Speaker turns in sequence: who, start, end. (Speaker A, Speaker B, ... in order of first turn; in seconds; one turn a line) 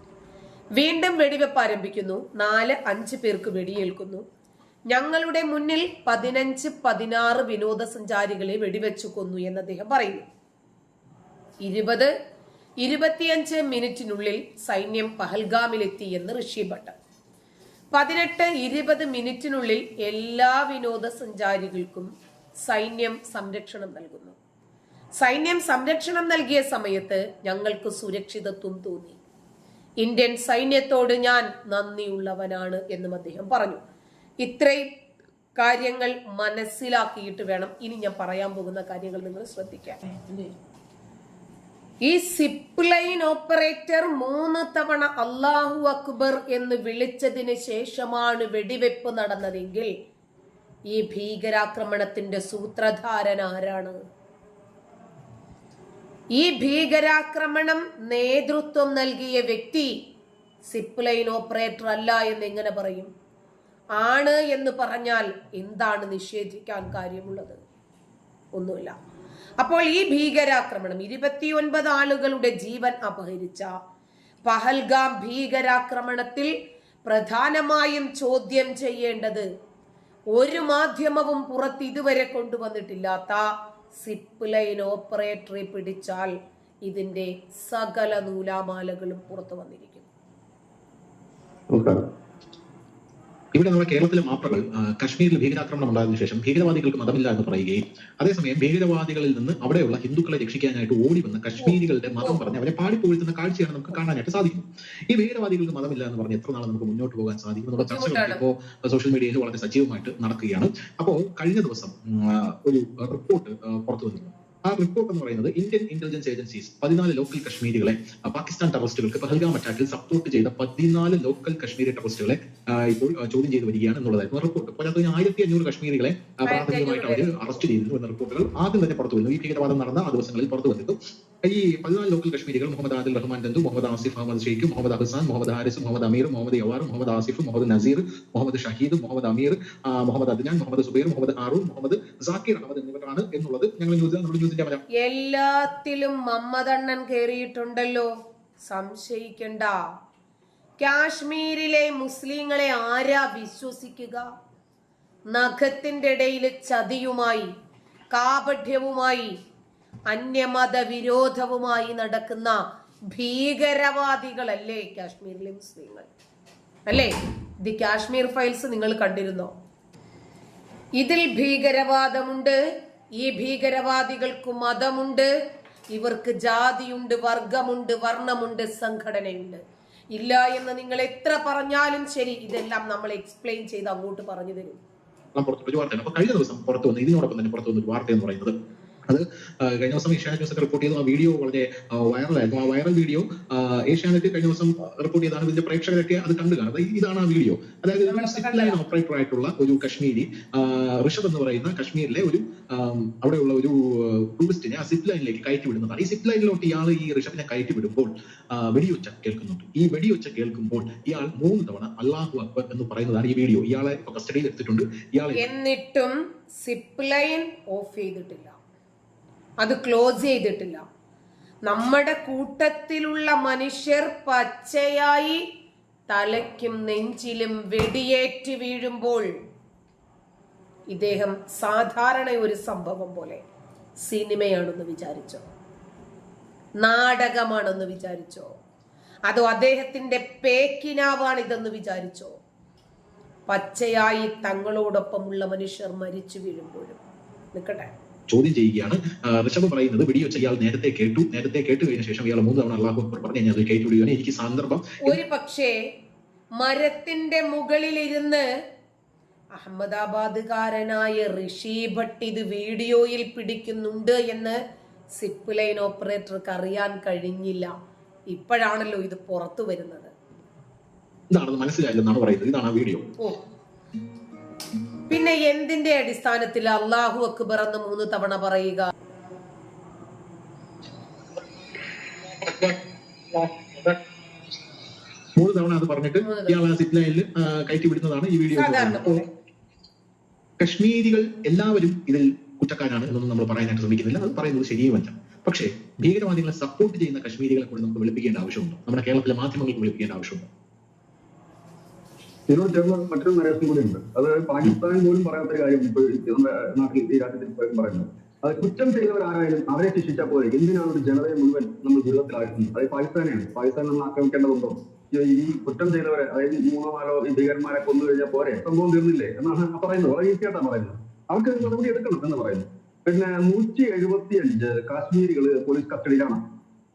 Speaker A: 0.8-4.2
Speaker A: 4.9-10.2
Speaker A: 11.7-12.1
Speaker A: 12.8-16.9
Speaker A: 17.9-22.1
Speaker A: 22.7-24.4
Speaker A: 25.2-29.2
Speaker A: 30.0-33.8
Speaker A: 34.4-34.9
Speaker A: 35.6-40.4
Speaker A: 42.1-49.9
Speaker A: 50.9-54.0
Speaker A: 56.4-59.9
Speaker A: 60.7-63.1
Speaker A: 64.0-67.6
Speaker A: 68.6-68.9
Speaker A: 69.6-73.7
Speaker A: 74.5-76.5
Speaker A: 77.1-79.4
Speaker A: 80.3-83.4
Speaker A: 84.0-86.3
Speaker A: 86.9-90.1
Speaker B: 93.5-144.8
Speaker A: 101.6-102.4
Speaker A: 107.8-108.4
Speaker A: 126.5-127.6
Speaker A: 145.0-148.1
Speaker A: 148.7-149.8
Speaker A: 150.8-154.2
Speaker A: 155.3-157.5
Speaker A: 158.1-159.3
Speaker A: 160.1-162.6
Speaker A: 163.1-166.1
Speaker A: 166.9-167.1
Speaker A: 167.6-169.5
Speaker A: 171.0-172.6
Speaker A: 173.2-175.3
Speaker A: 175.9-179.6
Speaker A: 180.1-184.8
Speaker B: 185.3-188.5
Speaker B: 189.1-215.4
Speaker A: 198.1-198.8
Speaker A: 215.4-218.6
Speaker A: 219.6-220.8
Speaker A: 221.7-225.4
Speaker A: 226.1-229.2
Speaker A: 230.9-233.4
Speaker A: 234.0-235.4
Speaker A: 236.8-238.5
Speaker A: 239.3-242.3
Speaker A: 243.5-247.0
Speaker A: 247.5-247.9
Speaker B: 248.3-255.2
Speaker A: 255.0-255.7
Speaker A: 256.6-258.4
Speaker A: 259.6-264.6
Speaker A: 265.2-267.7
Speaker A: 268.3-270.1
Speaker B: 271.3-273.1
Speaker A: 275.1-278.9
Speaker B: 282.3-282.8
Speaker B: 283.3-284.0
Speaker B: 285.4-289.2
Speaker A: 286.2-286.6
Speaker A: 288.5-289.3
Speaker B: 290.6-300.5
Speaker C: 302.5-326.4